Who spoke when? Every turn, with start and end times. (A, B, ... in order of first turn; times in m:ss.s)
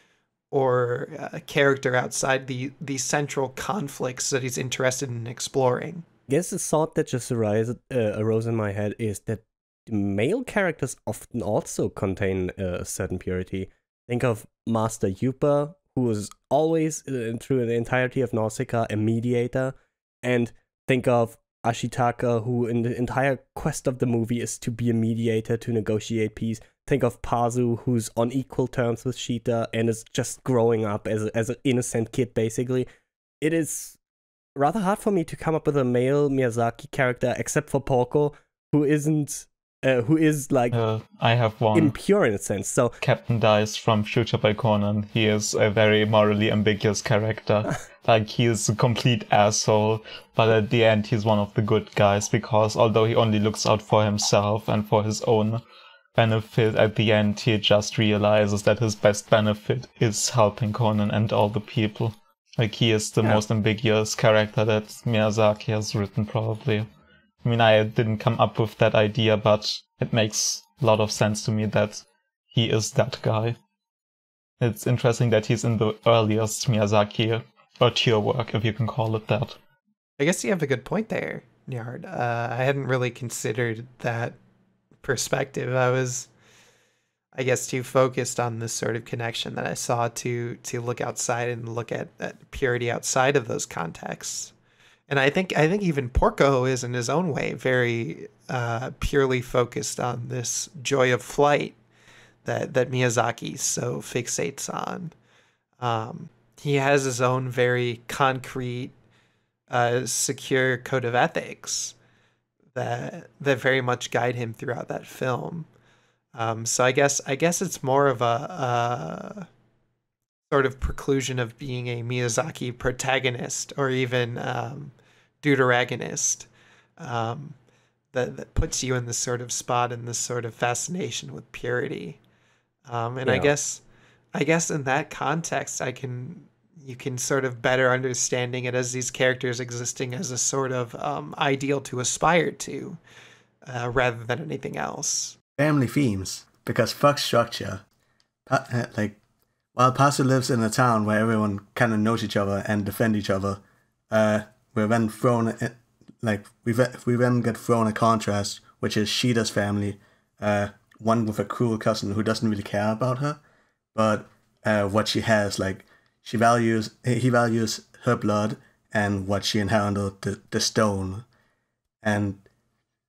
0:00.5-0:06.0 A
0:06.3-0:32.9 B
0:33.4-0:34.0 B
0:34.5-0:40.8 B
0:40.7-0:41.9 C
0:41.7-0:43.0 B
0:43.0-0:55.6 C
0:56.2-1:06.9 C
1:07.4-1:13.6 C
1:14.6-1:19.6 C
1:20.2-1:24.4 A
1:25.0-1:26.3 A
1:27.3-1:34.5 A
1:35.1-1:41.8 A
1:42.4-1:45.1 A
1:45.8-1:48.9 A
1:49.7-1:51.9 A
1:52.7-1:55.7 A
1:56.3-1:59.5 A
2:00.5-2:07.6 A
2:08.1-2:12.2 A
2:12.8-2:13.8 A
2:13.2-2:13.5 B
2:14.3-2:23.0 A
2:23.6-2:25.4 A
2:25.6-2:27.8 D
2:28.4-2:29.2 D
2:29.7-2:43.4 D
2:43.9-2:51.2 D
2:52.0-2:52.4 D